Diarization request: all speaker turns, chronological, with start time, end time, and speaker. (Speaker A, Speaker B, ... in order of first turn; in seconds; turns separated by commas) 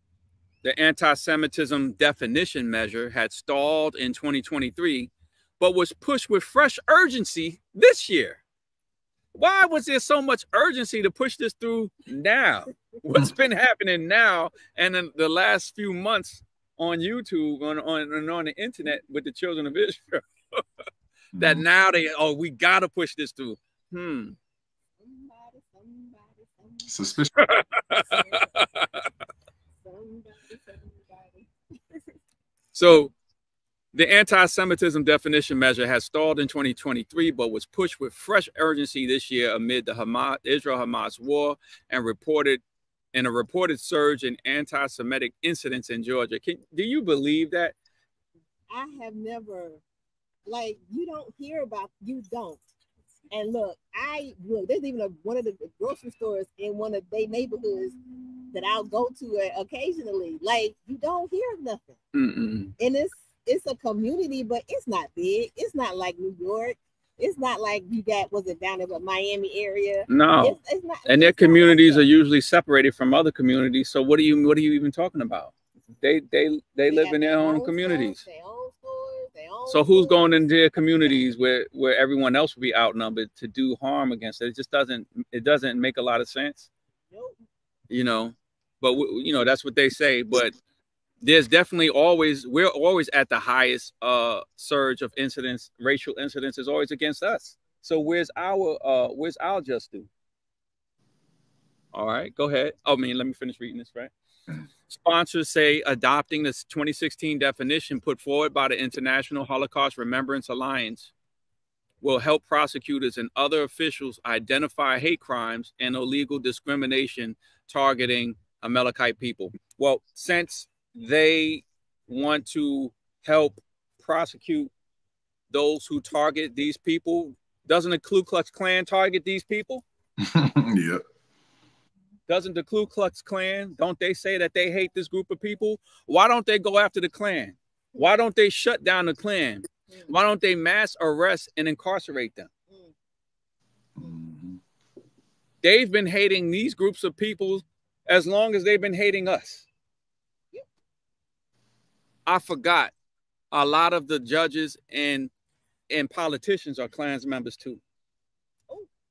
Speaker A: 0.6-8.4, Speaker A: 9.3-20.6, Speaker B: 21.3-21.6, Speaker A: 21.4-24.4, Speaker C: 25.0-26.9, Speaker B: 26.9-27.3, Speaker A: 27.4-28.9, Speaker C: 28.1-28.5, Speaker C: 29.8-32.0, Speaker A: 32.7-33.1, Speaker A: 33.9-42.6, Speaker A: 43.1-47.7, Speaker C: 48.7-49.8, Speaker C: 50.5-52.6, Speaker C: 53.3-58.0, Speaker C: 58.5-62.0, Speaker A: 62.1-62.7, Speaker C: 62.8-72.1, Speaker A: 70.1-78.2, Speaker C: 76.9-80.3, Speaker A: 79.7-86.7, Speaker A: 87.9-90.5, Speaker A: 91.2-100.1, Speaker A: 101.9-104.1, Speaker A: 104.9-111.1, Speaker A: 112.0-124.7, Speaker A: 125.5-129.8, Speaker B: 130.2-131.0, Speaker A: 132.3-142.5, Speaker B: 144.0-144.6, Speaker A: 145.6-149.7, Speaker A: 152.2-152.9, Speaker A: 153.5-155.3, Speaker A: 155.9-157.8